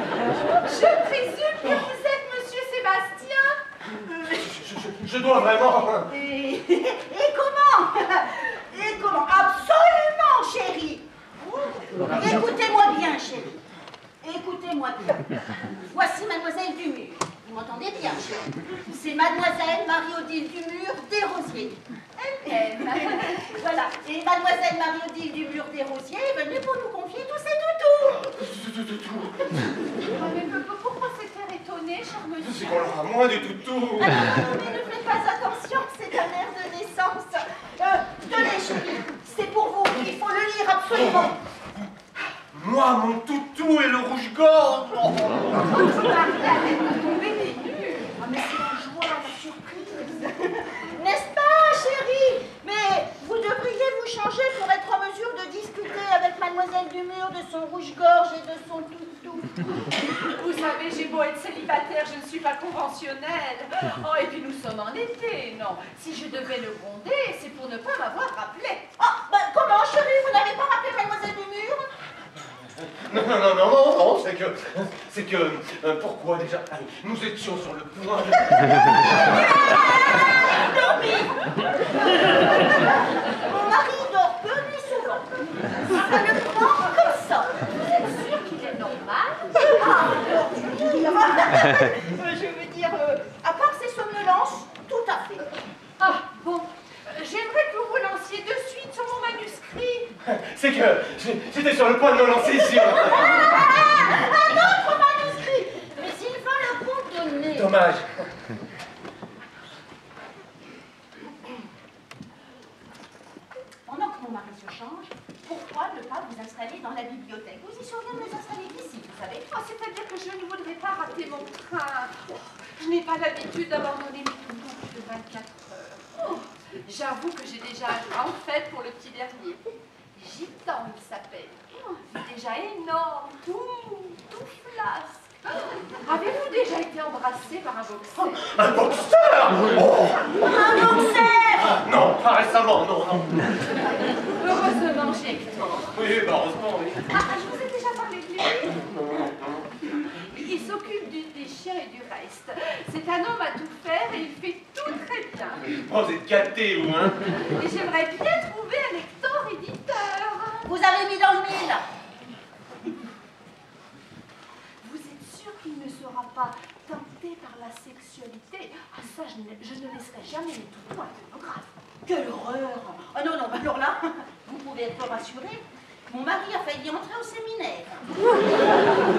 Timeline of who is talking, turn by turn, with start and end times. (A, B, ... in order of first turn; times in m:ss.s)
0:00.6-0:03.6 A
0:04.2-0:06.1 B
0:06.0-0:13.6 C
0:14.2-0:21.8 C
0:22.2-0:23.5 A
0:22.5-0:28.3 C
0:28.3-0:29.7 B
0:30.1-0:32.9 A
0:32.4-0:34.3 B
0:34.0-0:41.4 C
0:41.1-0:41.3 B
0:42.5-0:45.6 B
0:45.7-0:48.1 A
0:45.8-0:46.6 C
0:48.2-0:59.6 C
1:00.2-1:08.9 A
1:09.0-1:11.9 C
1:13.1-1:19.1 B
1:19.0-1:21.4 C
1:22.0-1:27.6 C
1:27.8-1:29.8 A
1:29.6-1:35.5 C
1:36.0-1:40.1 A
1:40.2-1:43.7 B
1:42.6-1:47.7 C
1:47.6-1:48.3 B
1:53.9-1:59.5 C
1:59.5-2:09.6 A
2:10.2-2:18.6 A
2:18.4-2:20.4 B
2:20.4-2:21.8 C
2:21.8-2:23.6 B
2:24.4-2:26.0 A
2:25.9-2:27.1 B
2:27.1-2:28.8 A
2:28.8-2:29.7 B
2:30.2-2:35.7 A
2:35.7-2:37.2 B
2:37.4-2:40.8 A
2:40.7-2:41.8 C
2:44.8-2:51.7 A
2:52.0-2:58.0 C